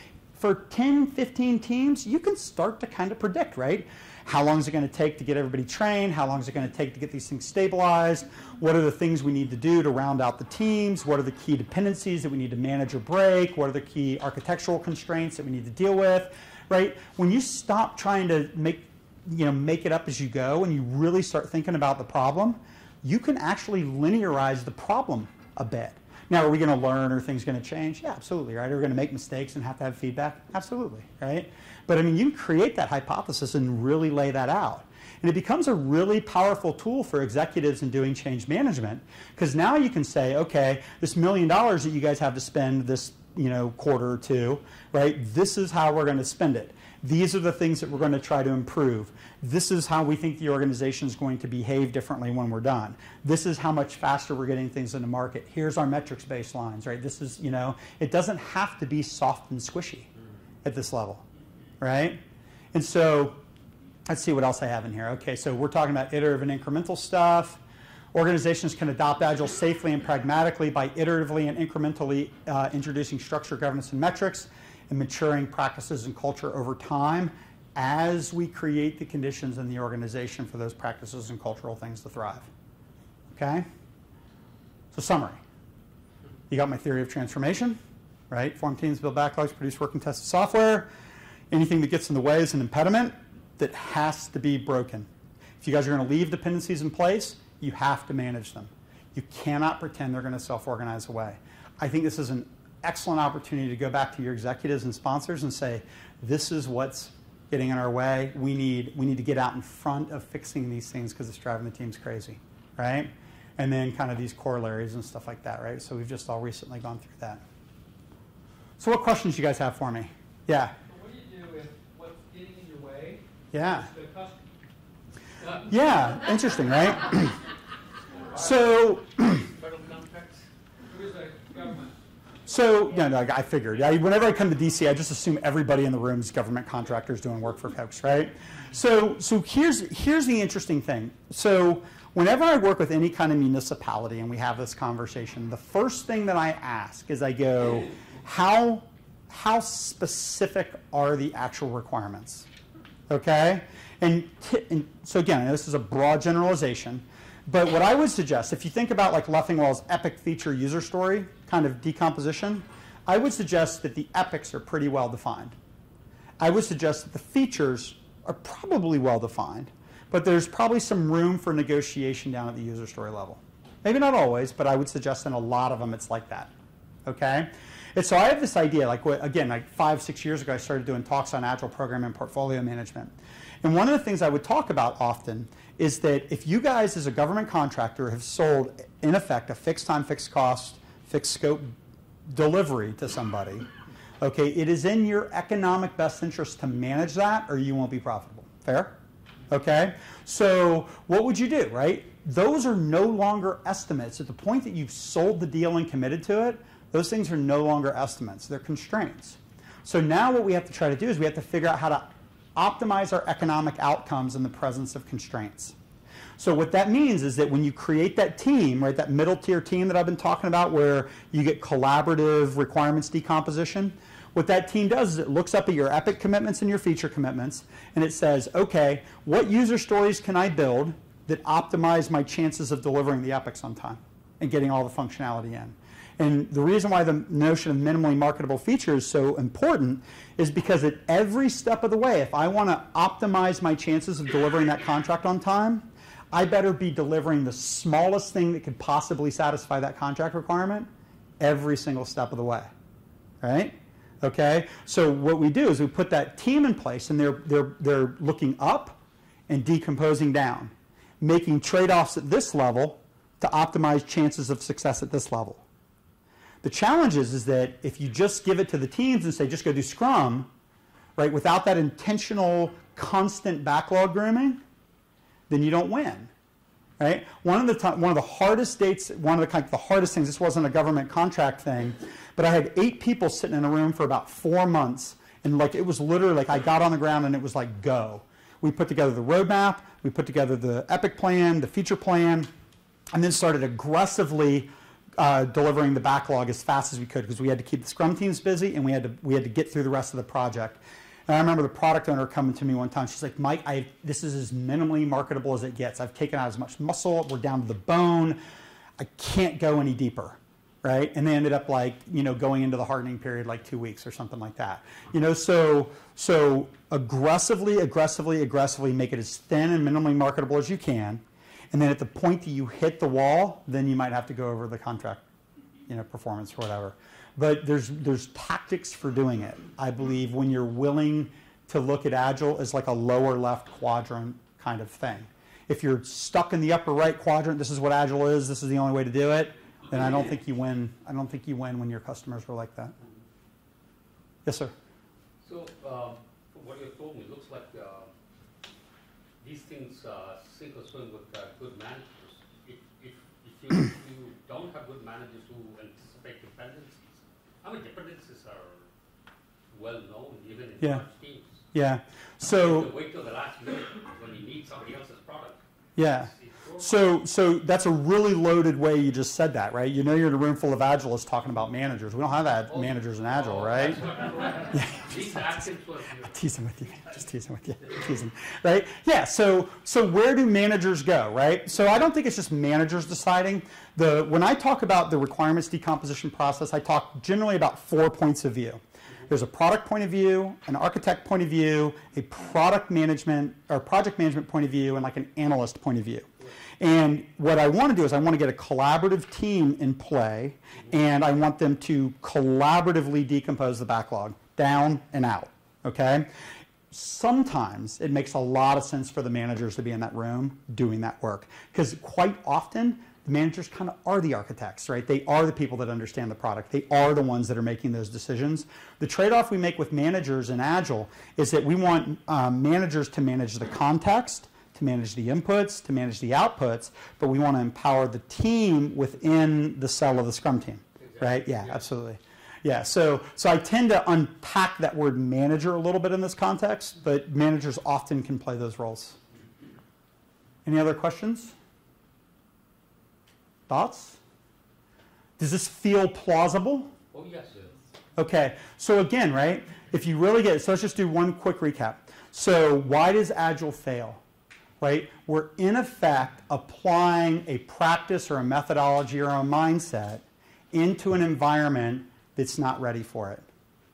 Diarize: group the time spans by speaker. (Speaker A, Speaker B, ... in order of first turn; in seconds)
Speaker A: 0.4-60.1, 60.6-61.2, 61.8-62.2, 62.7-63.4, 64.1-67.6, 68.1-82.5, 83.3-83.7, 84.9-85.4, 86.5-87.8, 88.3-90.9, 91.5-95.1, 95.6-117.4, 118.8-120.7, 123.5-123.9, 125.7-127.4, 128.4-129.4, 132.5-152.5, 153.1-165.6, 166.4-176.5, 177.1-191.7, 192.3-193.7, 194.2-199.0, 199.5-215.8, 216.4-250.9, 251.4-252.7, 253.4-265.6, 266.6-270.5, 271.2-274.6, 275.5-276.3, 277.0-292.5, 293.1-308.4, 309.0-325.2, 325.9-343.0, 344.4-344.7, 361.7-362.9, 366.0-374.1, 374.7-375.7, 376.2-396.3, 396.8-406.3, 406.9-439.2, 440.6-441.6, 443.7-444.2, 445.4-446.9, 448.2-454.2, 454.8-463.5
Speaker B: 120.8-124.4, 125.4-125.8, 128.3-128.6, 130.8-132.0
Speaker C: 129.6-130.2, 345.4-348.1, 349.4-358.9, 359.7-361.7, 362.4-367.0, 372.7-376.6, 431.0-431.9, 447.1-447.9